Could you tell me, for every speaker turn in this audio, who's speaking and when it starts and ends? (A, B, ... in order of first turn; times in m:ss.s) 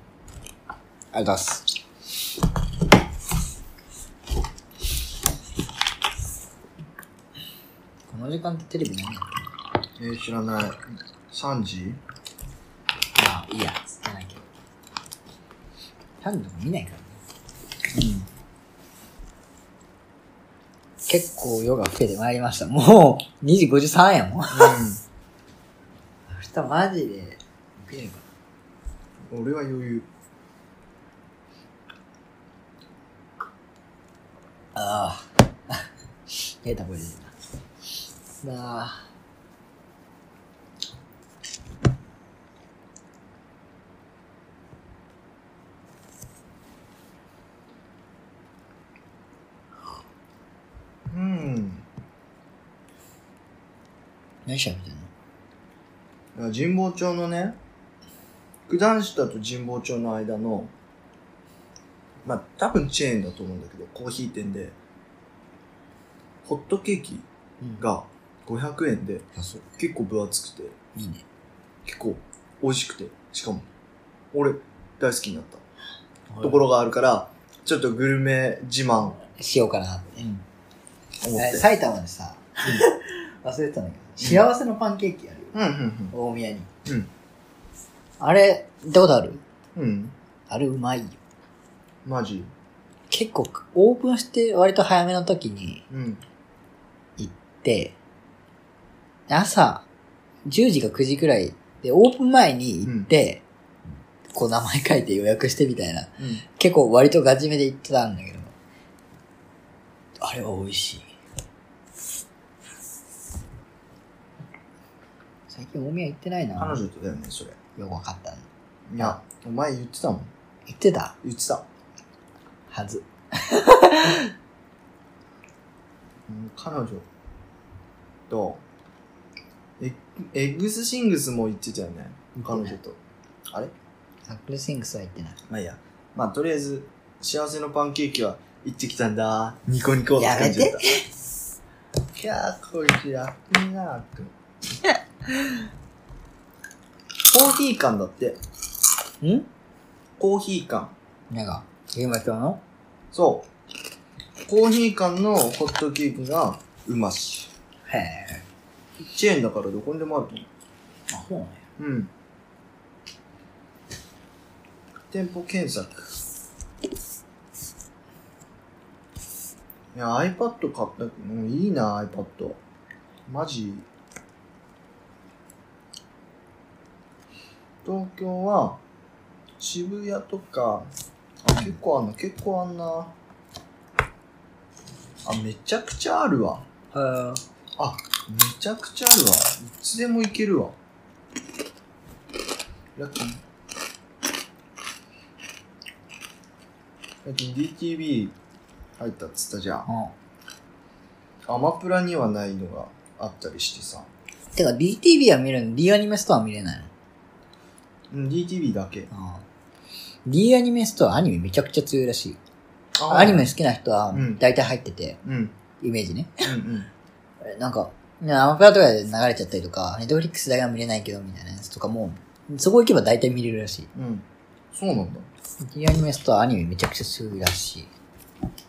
0:01.1-0:01.6 A
0:08.1-0:09.4 A
0:10.0-0:12.0 B
0:13.2-0:14.5 A
0:16.2-0:17.2 A
0:17.9-0:18.3 B
0:21.1-0:24.8 A
0:24.5-0:25.0 B
0:26.3-0:28.2 A
0:29.3-0:30.1 B
0:34.8-0:37.3 A
0:38.4-0:39.0 A
0:51.1-0:51.8 B
0:54.5-0:55.1 A
0:56.4-0:57.6 B
0:58.7-1:00.7 B
1:02.2-1:04.8 B
1:06.4-1:07.3 B
1:07.6-1:07.9 A
1:07.8-1:10.8 B
1:11.0-1:11.2 A
1:11.8-1:13.6 B
1:14.3-1:15.6 B
1:16.3-1:16.6 A
1:16.4-1:19.2 B
1:19.2-1:20.3 A
1:21.2-1:21.7 B
1:21.4-1:25.6 A
1:25.5-1:26.1 B
1:26.1-1:26.7 A
1:28.2-1:29.4 A
1:29.8-1:30.2 B
1:30.5-1:31.2 A
1:32.0-1:32.5 B
1:33.1-1:35.8 A
1:35.9-1:36.2 B
1:37.2-1:38.0 A
1:39.3-1:39.8 A
1:40.5-1:43.4 A
1:44.3-1:48.5 A
1:50.2-1:51.1 A
1:55.5-1:56.8 A
1:56.6-1:57.6 B
1:57.8-1:58.4 A
1:58.9-2:00.3 B
2:00.7-2:01.2 A
2:01.2-2:01.6 B
2:02.7-2:04.3 A
2:06.3-2:07.1 B
2:08.3-2:08.6 B
2:09.8-2:13.0 B
2:12.4-2:12.8 A
2:14.3-2:15.4 A
2:15.5-2:20.8 B
2:20.2-2:21.1 A
2:22.2-2:24.3 B
2:27.3-2:28.4 B
2:29.2-2:29.5 A
2:30.2-2:30.9 B
2:31.3-2:32.6 A
2:33.1-2:33.5 B
2:34.5-2:37.5 B
2:37.9-2:38.4 A
2:39.1-2:40.5 B
2:41.1-2:41.6 A
2:41.8-2:42.1 B
2:45.1-2:46.2 B
2:49.9-2:52.6 B
2:53.3-2:53.9 B
2:57.8-2:58.8 B
2:59.6-3:00.9 B
3:01.4-3:03.1 B
3:05.2-3:06.6 B
3:06.9-3:07.4 A
3:07.8-3:10.8 B
3:13.0-3:13.4 B
3:17.2-3:18.4 B
3:19.0-3:19.9 B
3:19.9-3:20.1 A
3:21.5-3:24.1 B
3:24.5-3:26.9 A
3:28.1-3:29.1 B
3:29.1-3:29.4 A
3:30.3-3:32.4 A
3:33.0-3:33.5 B
3:33.1-3:35.2 A
3:34.1-3:34.4 B
3:35.2-3:35.6 B
3:35.8-3:36.5 A
3:36.4-3:36.9 B
3:37.4-3:43.9 A
3:43.9-3:45.3 B
3:45.7-3:47.9 A